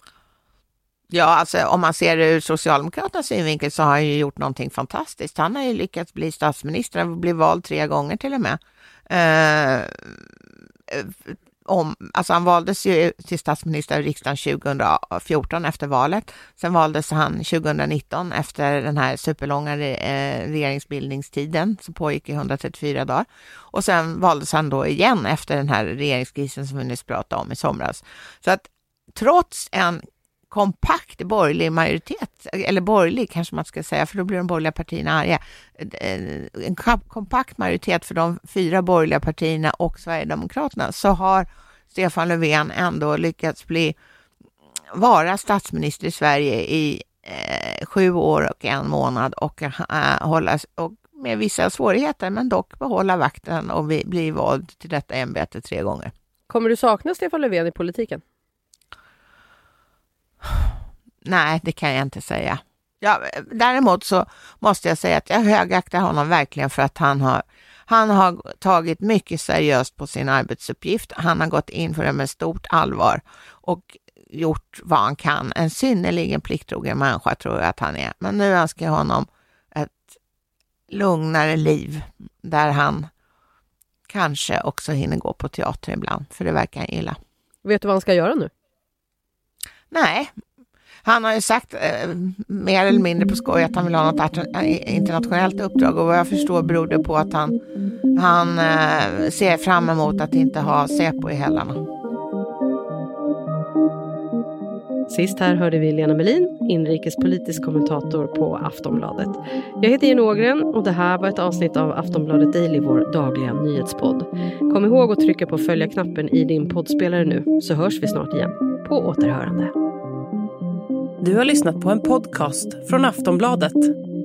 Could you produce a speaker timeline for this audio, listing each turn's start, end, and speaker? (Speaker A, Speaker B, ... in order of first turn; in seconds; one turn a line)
Speaker A: 1.1-8.6
Speaker A: 9.1-10.3
Speaker A: 10.9-44.0
Speaker A: 44.9-56.1
Speaker B: 56.5-58.2
Speaker A: 61.2-80.1
Speaker A: 80.9-83.1
Speaker A: 84.1-87.2
Speaker B: 87.6-88.5
Speaker A: 89.9-90.3
Speaker A: 91.0-97.6
Speaker A: 98.2-101.8
Speaker B: 105.1-119.7
Speaker C: 121.2-123.8